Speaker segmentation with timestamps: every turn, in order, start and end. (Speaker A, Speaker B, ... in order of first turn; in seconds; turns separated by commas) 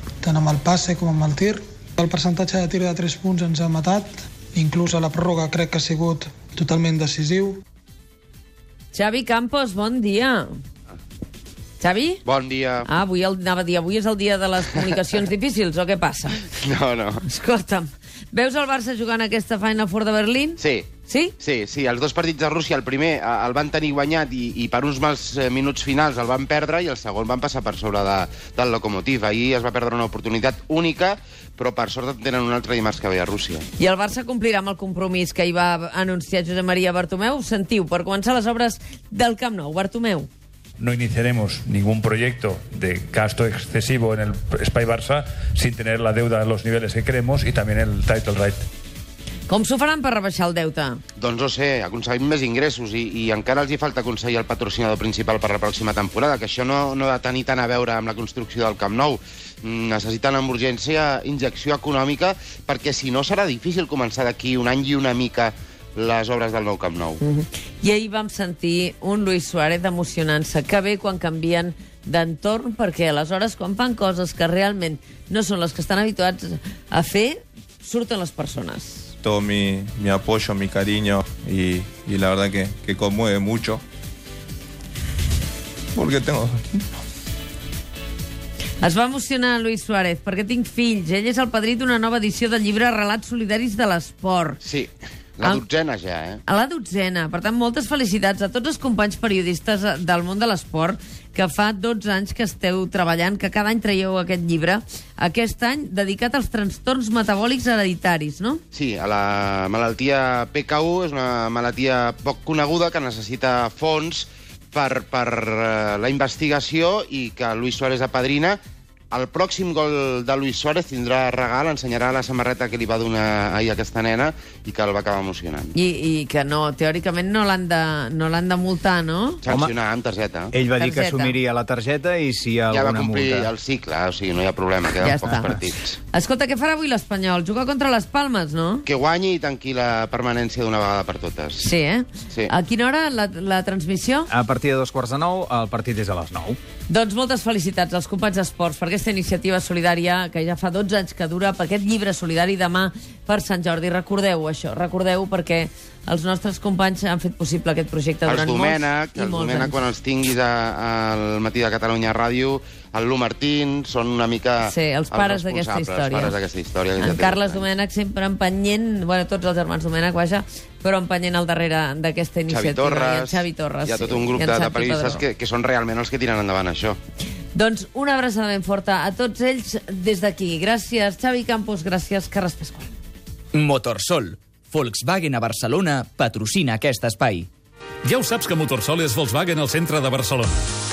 Speaker A: 0.2-7.6, Speaker B: 8.9-10.5, Speaker B: 11.8-12.2, Speaker C: 12.2-12.9, Speaker B: 12.9-16.4, Speaker C: 16.6-17.2, Speaker B: 17.2-21.4, Speaker C: 20.6-33.6, Speaker B: 33.8-40.3, Speaker D: 40.8-48.6, Speaker B: 49.5-51.0, Speaker C: 51.2-67.2, Speaker B: 67.2-79.1, Speaker E: 79.2-83.8, Speaker E: 85.9-86.8, Speaker B: 88.8-94.6, Speaker C: 94.6-96.4, Speaker B: 96.5-108.6, Speaker C: 108.7-118.6, Speaker C: 119.1-125.7, Speaker B: 125.7-129.4, Speaker C: 129.4-130.5, Speaker F: 129.5-129.7, Speaker F: 130.5-133.5, Speaker B: 130.7-131.4, Speaker C: 132.7-136.0, Speaker B: 135.0-138.8, Speaker C: 138.8-141.6, Speaker B: 141.6-144.3, Speaker F: 144.3-146.6, Speaker B: 146.9-159.8, Speaker C: 158.2-167.6, Speaker B: 164.6-166.4, Speaker B: 167.0-175.2, Speaker C: 172.5-177.0, Speaker B: 177.5-182.9, Speaker G: 183.5-187.5, Speaker H: 188.0-190.5